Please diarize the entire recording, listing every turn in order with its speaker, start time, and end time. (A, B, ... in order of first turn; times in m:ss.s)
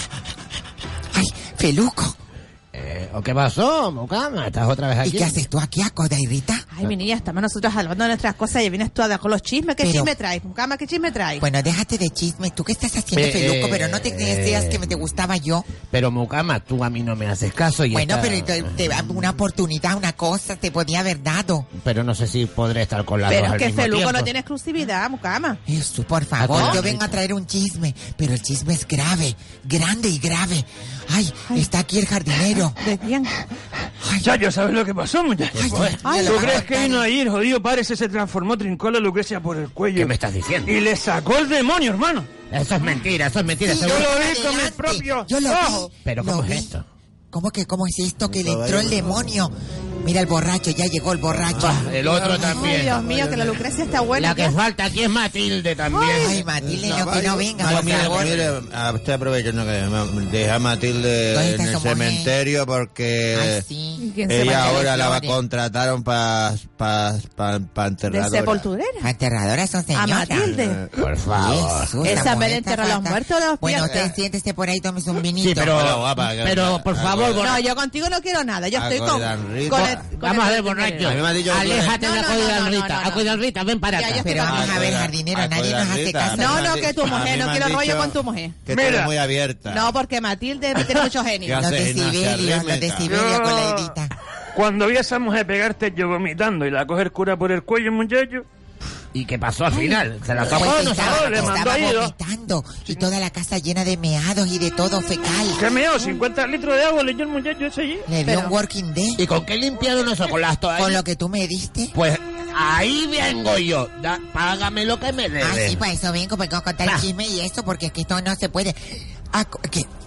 0:01.1-0:02.2 A
0:02.7-0:05.4 B
0:05.0-0:06.6 A
0:06.7-0:11.4 C
0:09.8-0:10.1 A
0:11.4-0:15.7 A
0:13.1-0:15.0 B
0:15.9-0:19.3 B
0:17.9-0:21.7 A
0:21.8-0:24.3 B
0:23.3-0:25.6 C
0:25.6-0:32.8 A
0:26.4-0:27.1 B
0:26.5-0:26.8 C
0:32.8-0:33.4 C
0:34.0-0:34.3 A
0:34.2-0:35.6 D
0:35.5-0:36.0 B
0:35.5-0:37.1 A
0:36.0-0:36.4 C
0:36.2-0:40.1 D
0:39.9-0:40.8 B
0:40.7-0:42.3 D
0:42.5-0:44.1 B
0:43.6-0:46.7 A
0:43.8-0:45.9 D
0:46.0-0:46.8 B
0:47.3-0:51.9 A
0:48.3-0:49.3 E
0:51.3-0:52.6 E
0:51.6-0:53.6 B
0:52.4-0:54.5 C
0:54.1-0:56.4 B
0:55.9-0:56.3 C
0:56.2-0:58.4 A
0:56.6-1:03.6 E
0:57.6-0:58.4 B
1:01.3-1:02.3 A
1:03.3-1:05.4 A
1:04.0-1:04.9 C
1:04.2-1:08.7 E
1:08.1-1:09.1 C
1:09.0-1:10.5 A
1:09.9-1:10.8 C
1:10.4-1:10.9 E
1:11.0-1:12.3 B
1:11.4-1:15.8 A
1:12.0-1:14.1 C
1:15.4-1:17.6 B
1:15.6-1:17.6 E
1:17.4-1:21.2 C
1:18.7-1:20.1 E
1:19.7-1:24.5 B
1:21.0-1:22.0 E
1:22.0-1:23.3 C
1:23.9-1:24.8 C
1:24.2-1:26.8 A
1:24.4-1:30.0 E
1:26.3-1:28.6 C
1:28.7-1:29.1 D
1:29.7-1:31.6 C
1:31.4-1:33.2 E
1:31.6-1:34.1 A
1:33.0-1:33.9 D
1:34.5-1:38.4 D
1:39.1-1:41.7 B
1:39.7-1:45.6 A
1:40.5-1:42.1 D
1:45.5-1:48.0 D
1:48.1-1:49.2 A
1:48.2-1:48.5 C
1:49.2-1:51.0 B
1:50.8-1:51.9 A
1:51.9-1:55.8 B
1:55.4-1:59.9 A
1:56.8-1:57.1 B